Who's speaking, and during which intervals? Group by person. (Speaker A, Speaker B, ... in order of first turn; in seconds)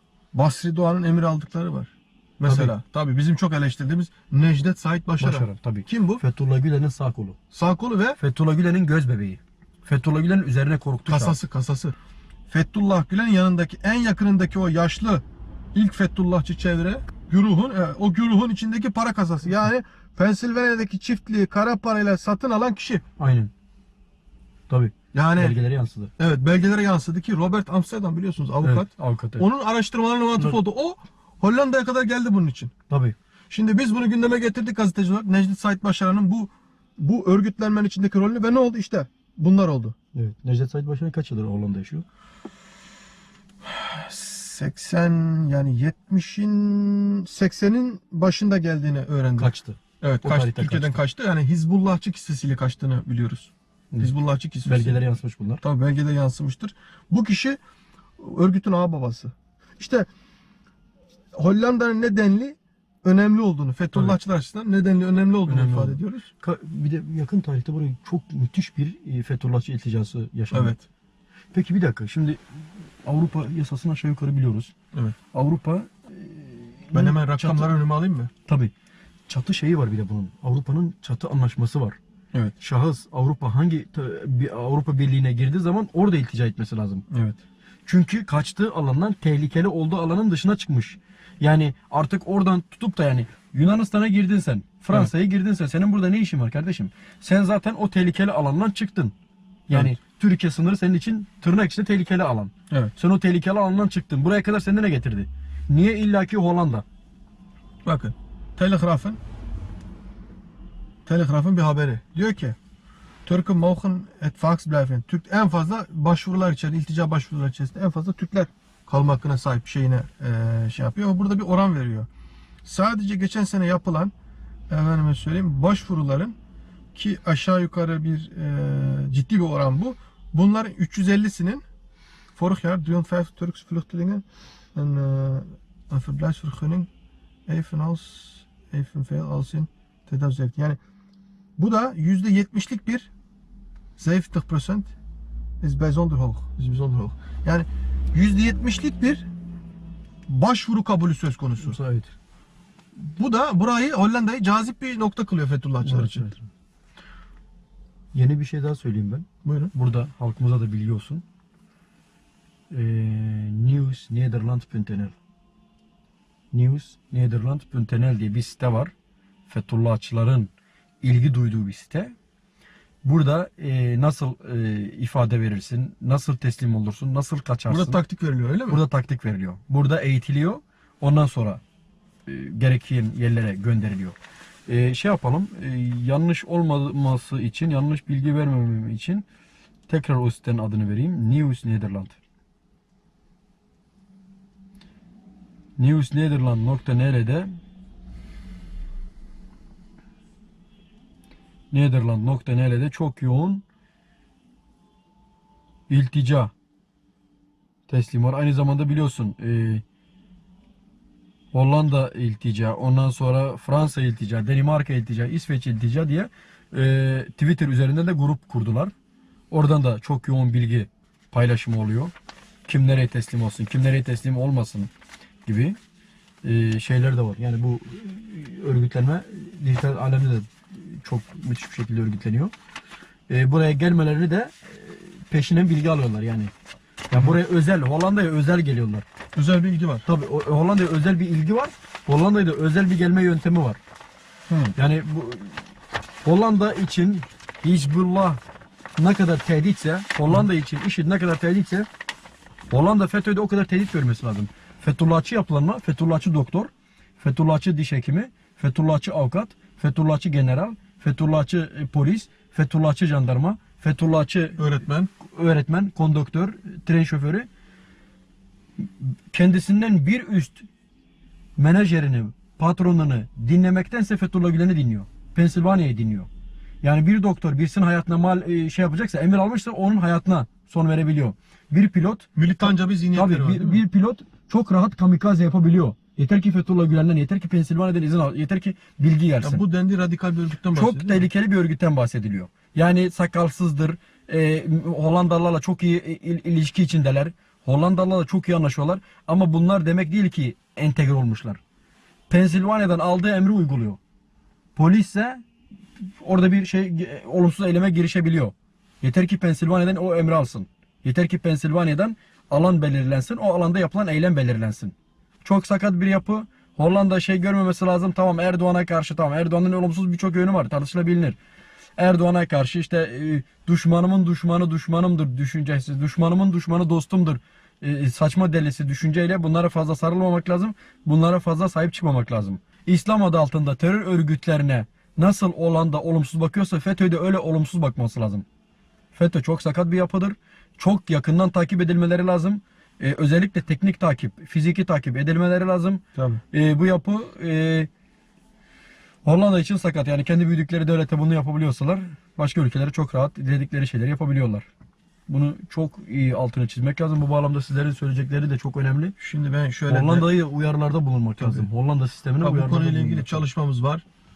Speaker A: 0.3-6.2, 7.5-8.2, 11.1-11.9, 12.5-23.1, 25.1-25.6, 26.2-32.7, 33.5-40.0, 43.6-55.0, 55.6-57.6, 58.2-60.1, 61.4-66.3, 70.5-70.8, 76.9-78.3, 87.1-87.4, 99.7-100.0, 107.8-109.2, 111.1-112.6, 113.3-122.1, 122.6-124.1, 124.7-126.4, 126.9-131.6, 132.4-134.2, 134.8-136.9, 137.5-140.8, 141.6-143.1, 144.0-144.9, 145.6-149.3, 150.3-151.8, 153.0-156.3, 159.4-159.7, 177.7-178.8, 239.3-240.1, 244.5-244.8, 264.6-265.1, 282.4-283.8, 289.4-291.2, 346.1-346.4, 359.2-360.3, 361.4-361.7, 362.4-364.0
Speaker B: 2.5-2.7, 5.2-7.4, 8.2-11.4, 23.2-23.5, 24.7-26.1, 28.6-29.5, 32.9-33.2, 40.1-42.0, 49.4-51.0, 54.6-55.6, 65.5-70.8, 71.5-74.7, 75.3-77.7, 78.5-78.7, 79.3-82.0, 82.6-87.1, 87.9-99.1, 99.7-106.8, 151.6-152.1, 155.8-156.5, 158.1-161.2, 162.7-165.2, 166.5-168.9, 169.5-170.5, 171.0-172.1, 173.0-178.0, 178.7-181.6, 182.3-189.2, 189.9-192.2, 195.8-197.6, 201.7-203.6, 205.9-206.5, 207.9-209.8, 211.5-218.9, 219.5-222.1, 222.7-224.9, 225.5-225.8, 226.4-232.5, 233.3-236.5, 237.1-239.1, 240.1-243.8, 244.8-245.6, 246.2-248.4, 249.0-251.9, 252.7-267.5, 268.8-270.7, 271.6-276.3, 276.8-289.6, 290.7-301.6, 302.3-304.0, 304.8-305.4, 306.2-321.4, 322.0-338.5, 339.1-347.9, 349.2-354.7, 355.3-359.1, 359.9-363.4